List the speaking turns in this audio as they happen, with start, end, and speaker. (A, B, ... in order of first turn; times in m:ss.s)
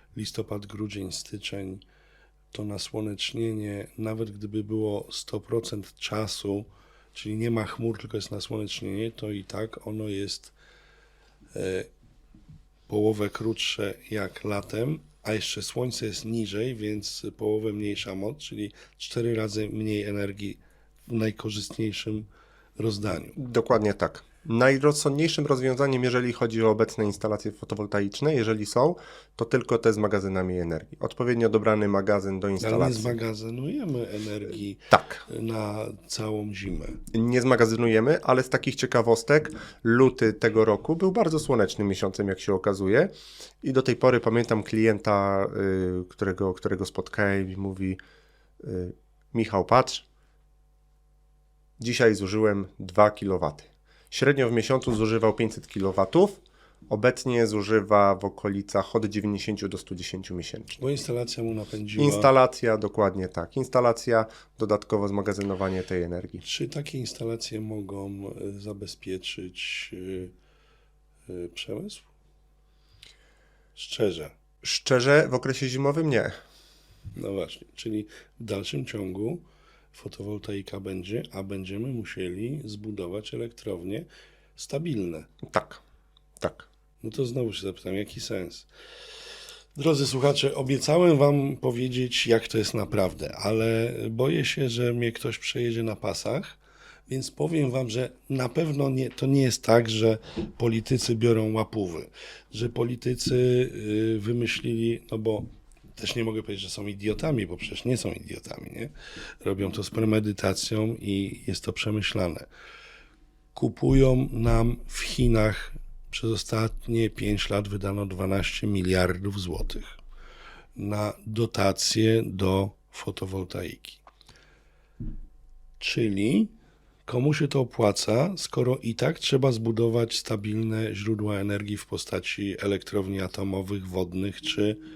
0:00.2-0:01.8 A
0:02.5-0:10.5 A
0:11.5-0:11.9 A
0:12.9-0:22.3 A
0:22.8-0:23.4 A
0:23.4-0:33.2 B
0:32.6-0:37.0 A
0:34.9-0:35.2 B
0:37.1-0:43.1 B
0:43.6-0:48.0 B
0:48.6-0:50.0 B
0:51.8-1:00.8 B
1:00.8-1:02.3 A
1:02.0-1:06.4 B
1:06.4-1:10.3 A
1:11.3-1:12.1 A
1:13.8-1:14.3 A
1:14.6-1:16.3 B
1:17.2-1:25.3 A
1:25.5-1:25.8 B
1:26.4-1:26.7 B
1:27.0-1:28.7 A
1:29.8-1:52.5 A
1:53.6-2:00.0 A
2:00.8-2:04.0 A
2:05.8-2:06.5 A
2:07.1-2:14.8 A